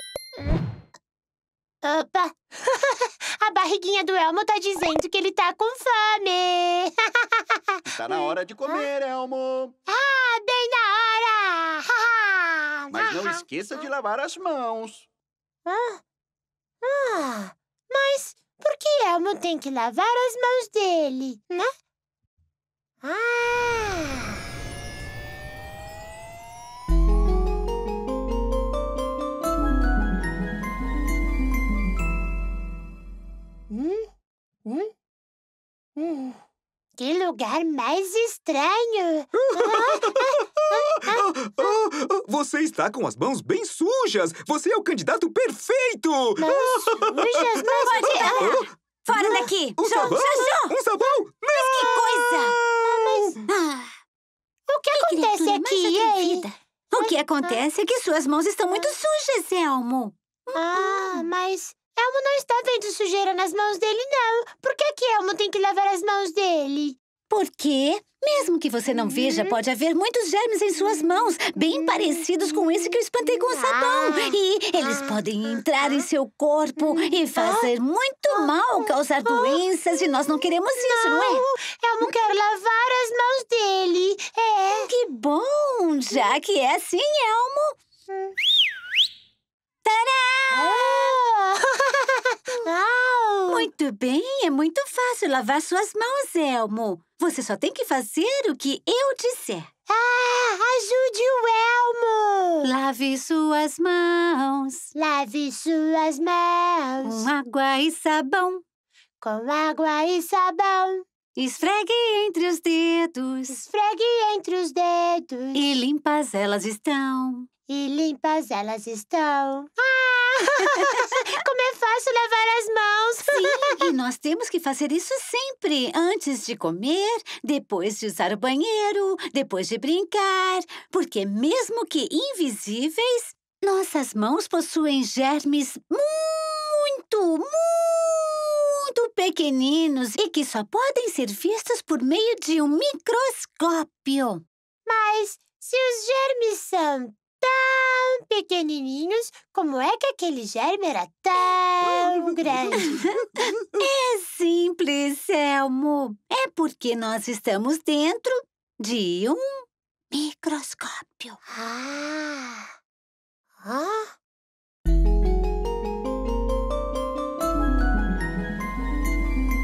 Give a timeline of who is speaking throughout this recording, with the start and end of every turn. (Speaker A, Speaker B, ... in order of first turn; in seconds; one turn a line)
Speaker A: 1.8-8.9
Speaker B: 7.9-9.7
Speaker A: 9.9-13.9
Speaker B: 12.9-15.1
Speaker A: 15.7-16.0
Speaker A: 16.8-21.7
Speaker A: 23.0-24.4
Speaker A: 33.7-34.1
Speaker A: 34.6-34.9
Speaker A: 36.0-36.4
Speaker A: 37.0-41.3
Speaker C: 39.3-47.5
Speaker A: 46.4-48.5
Speaker D: 47.8-50.7
Speaker C: 48.2-53.1
Speaker D: 51.5-52.6
Speaker A: 51.8-52.2
Speaker A: 52.7-53.4
Speaker D: 53.5-53.9
Speaker A: 54.7-57.6
Speaker D: 54.9-61.3
Speaker A: 60.5-67.0
Speaker D: 67.3-81.4
Speaker A: 68.9-69.5
Speaker A: 71.8-72.2
Speaker A: 73.3-75.2
Speaker A: 75.8-76.1
Speaker A: 77.3-77.7
Speaker A: 79.2-79.6
Speaker A: 80.8-84.9
Speaker D: 84.7-87.8
Speaker D: 89.8-91.1
Speaker A: 90.5-93.7
Speaker D: 93.5-99.7
Speaker A: 99.9-102.7
Speaker D: 102.6-104.9
Speaker A: 104.9-107.3
Speaker D: 107.0-108.6
Speaker A: 109.2-111.0
Speaker D: 111.3-113.6
Speaker A: 113.5-115.7
Speaker D: 115.5-117.5
Speaker A: 117.7-123.8
Speaker D: 120.8-121.2
Speaker D: 123.2-144.4
Speaker A: 144.8-153.0
Speaker C: 151.8-153.5
Speaker D: 152.7-161.4
Speaker A: 161.5-162.7
Speaker A: 163.6-164.1